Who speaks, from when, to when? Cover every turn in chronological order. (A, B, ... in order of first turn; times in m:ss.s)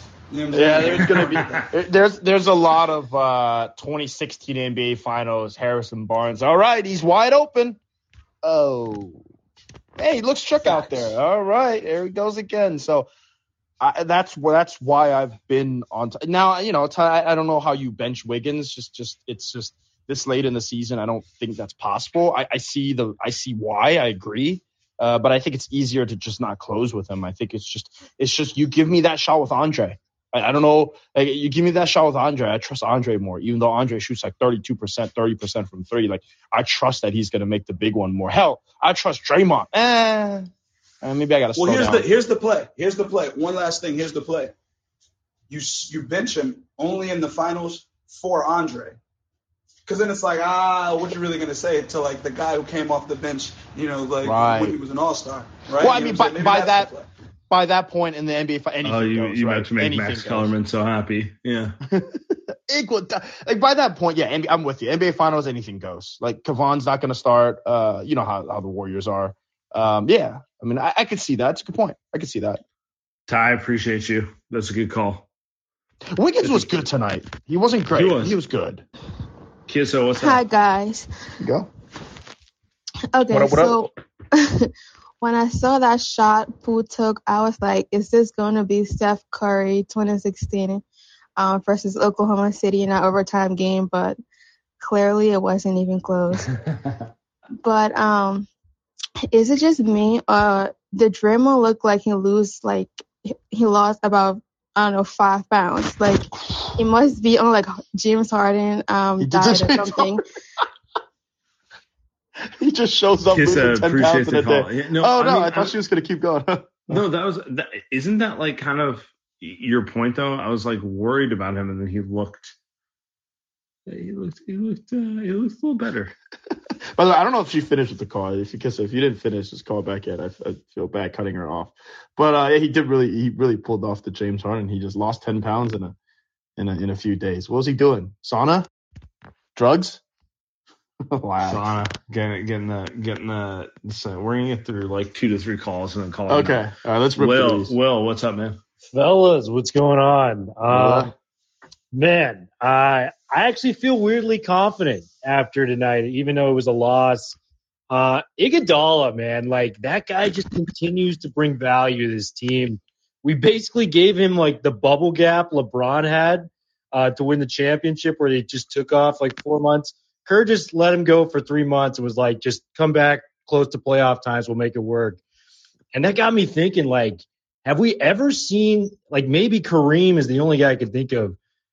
0:00.3-0:01.6 A
0:00.5-0:07.8 B
0:00.8-0:01.7 C
0:08.4-0:09.2 B
0:10.0-0:13.1 B
0:13.8-0:40.5 B
0:41.0-0:42.1 B
0:41.5-0:44.5 A
0:45.5-0:49.0 A
0:49.8-0:57.1 A
0:54.2-0:54.8 B
0:55.8-0:56.9 B
0:57.5-1:00.5 B
0:58.8-1:01.8 C
1:01.9-1:12.6 B
1:13.3-1:15.3 C
1:16.1-1:18.8 B
1:16.4-1:16.7 C
1:17.9-1:18.4 C
1:19.7-1:20.4 C
1:20.2-1:21.1 D
1:21.4-1:21.7 B
1:23.1-1:30.8 D
1:23.3-1:23.9 B
1:31.4-1:34.2 D
1:34.8-1:36.5 D
1:36.6-1:37.1 C
1:37.6-1:38.5 D
1:39.3-1:42.9 D
1:43.5-1:50.2 D
1:49.2-1:50.2 B
1:52.6-1:57.0 B
1:53.3-1:55.7 C
1:56.9-2:02.5 C
2:03.9-2:06.1 C
2:06.9-2:15.9 B
2:16.6-2:18.7 B
2:19.6-2:20.0 B
2:21.1-2:21.7 B
2:21.4-2:28.6 C
2:26.3-2:27.7 B
2:28.8-2:31.1 E
2:30.7-2:31.1 B
2:31.9-2:37.4 E
2:37.9-2:55.2 E
2:55.9-3:01.4 E